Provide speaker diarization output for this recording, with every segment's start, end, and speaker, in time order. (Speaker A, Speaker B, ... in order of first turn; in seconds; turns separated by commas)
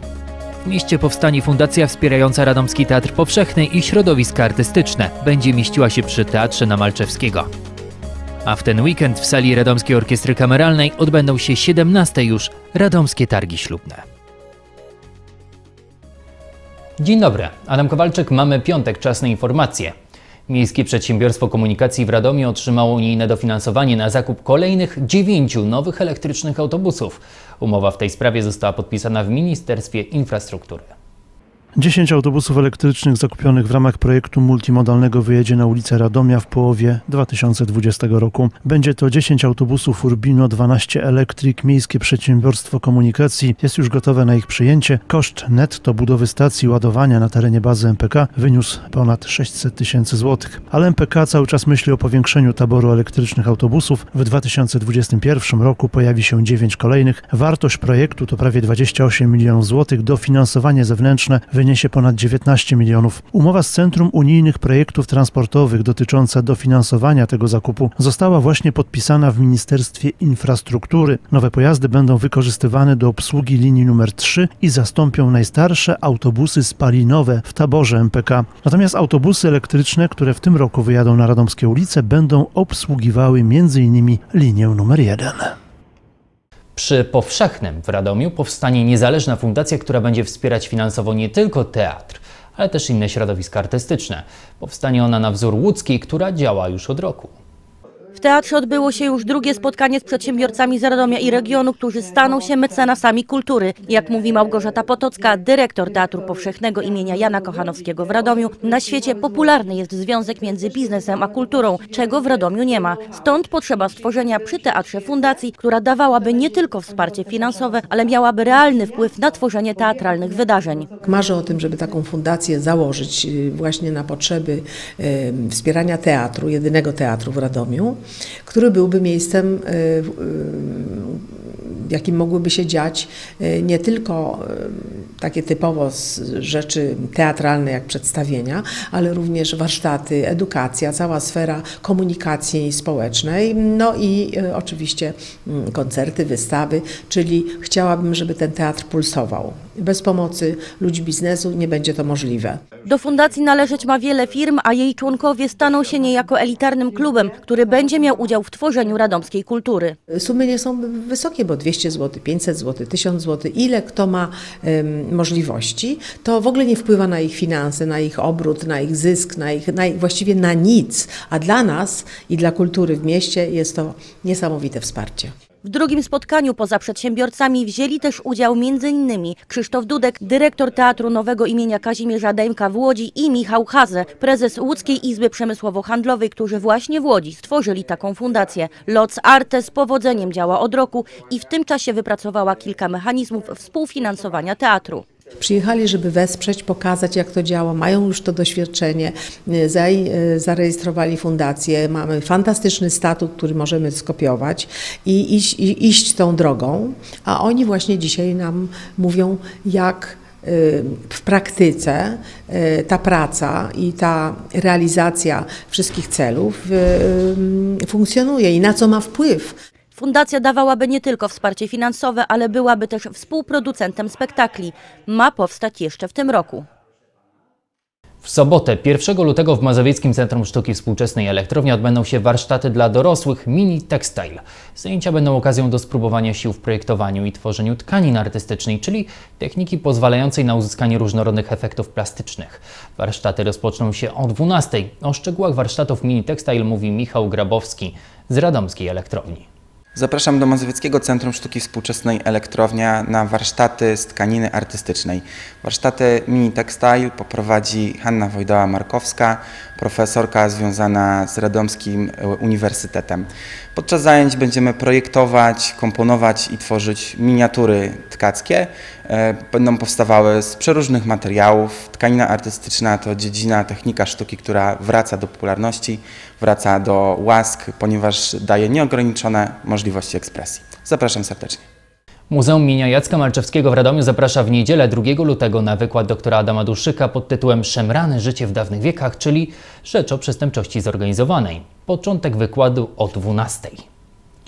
Speaker A: 0.6-7.5, Speaker A: 8.4-14.0, Speaker A: 17.0-19.9, Speaker A: 20.5-30.9, Speaker B: 31.8-85.5, Speaker A: 86.8-97.3, Speaker C: 98.2-120.9, Speaker D: 121.0-152.6, Speaker C: 152.8-160.0, Speaker D: 160.1-175.3, Speaker C: 175.6-195.0, Speaker D: 195.4-219.6, Speaker C: 219.9-226.7, Speaker A: 228.2-249.4, Speaker E: 249.9-281.6, Speaker A: 282.3-293.8